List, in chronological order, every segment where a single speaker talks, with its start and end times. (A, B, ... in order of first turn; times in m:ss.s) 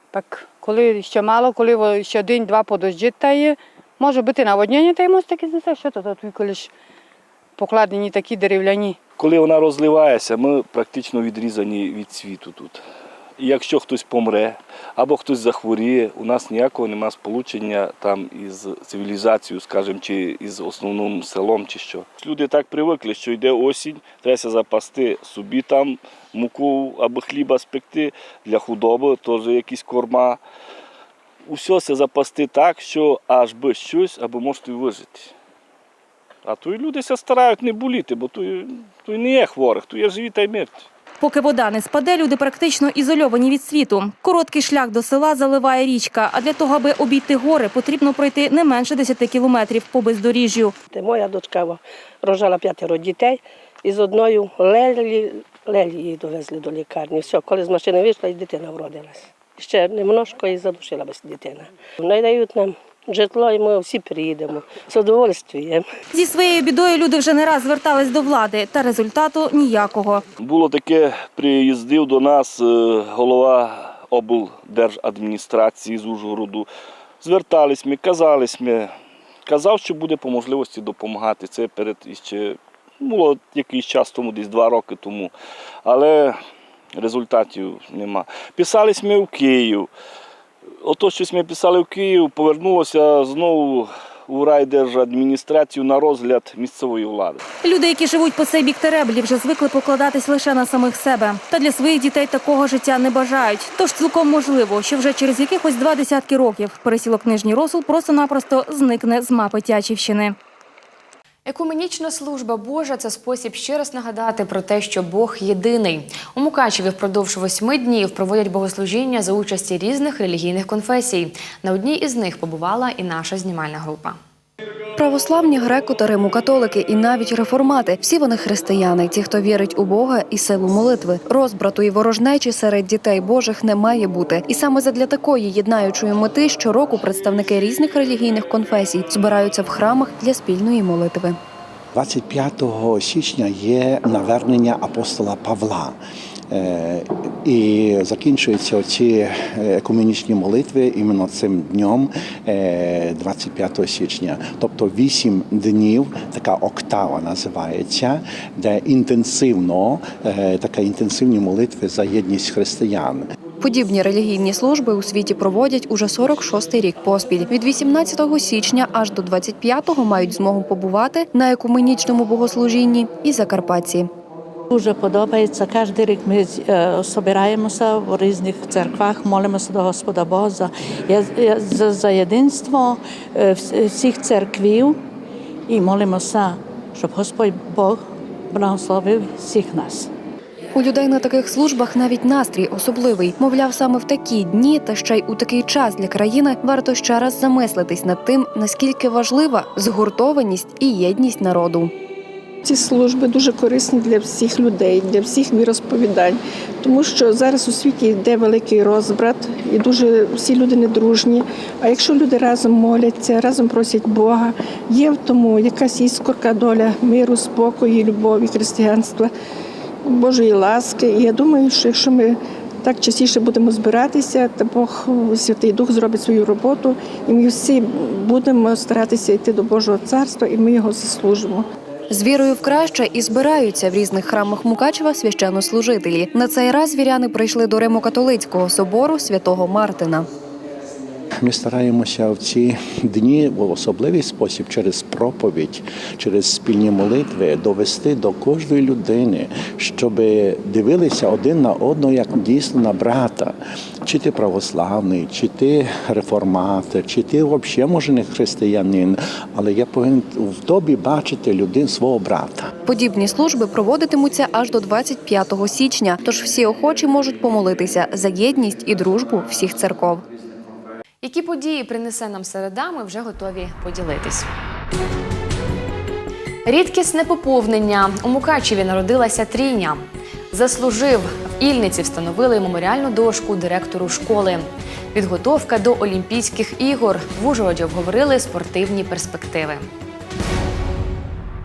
0:00.1-0:06.7 A
0:07.6-0:09.0 A
0:09.2-0:12.8 B
0:13.4-0:30.4 B
0:31.5-0:35.3 B
0:36.5-0:40.8 B
0:41.2-0:50.7 C
0:50.9-1:05.8 D
1:06.1-1:10.2 C
1:10.4-1:16.7 B
1:17.2-1:18.9 B
1:19.5-1:25.3 B
1:25.8-1:26.4 B
1:27.0-1:29.9 B
1:30.8-1:37.4 B
1:37.6-1:50.4 C
1:51.5-2:04.2 E
2:05.0-2:21.4 F
2:21.9-2:26.0 G
2:26.5-2:43.3 G
2:43.6-2:54.1 F
2:54.7-3:05.0 H
3:05.7-3:10.1 H
3:10.8-3:21.9 F
3:22.6-3:39.3 I
3:40.1-3:51.7 I
3:52.1-4:00.3 F
4:01.4-4:22.7 G
4:22.9-4:30.2 F
4:31.2-4:34.5 E
4:36.6-4:49.9 E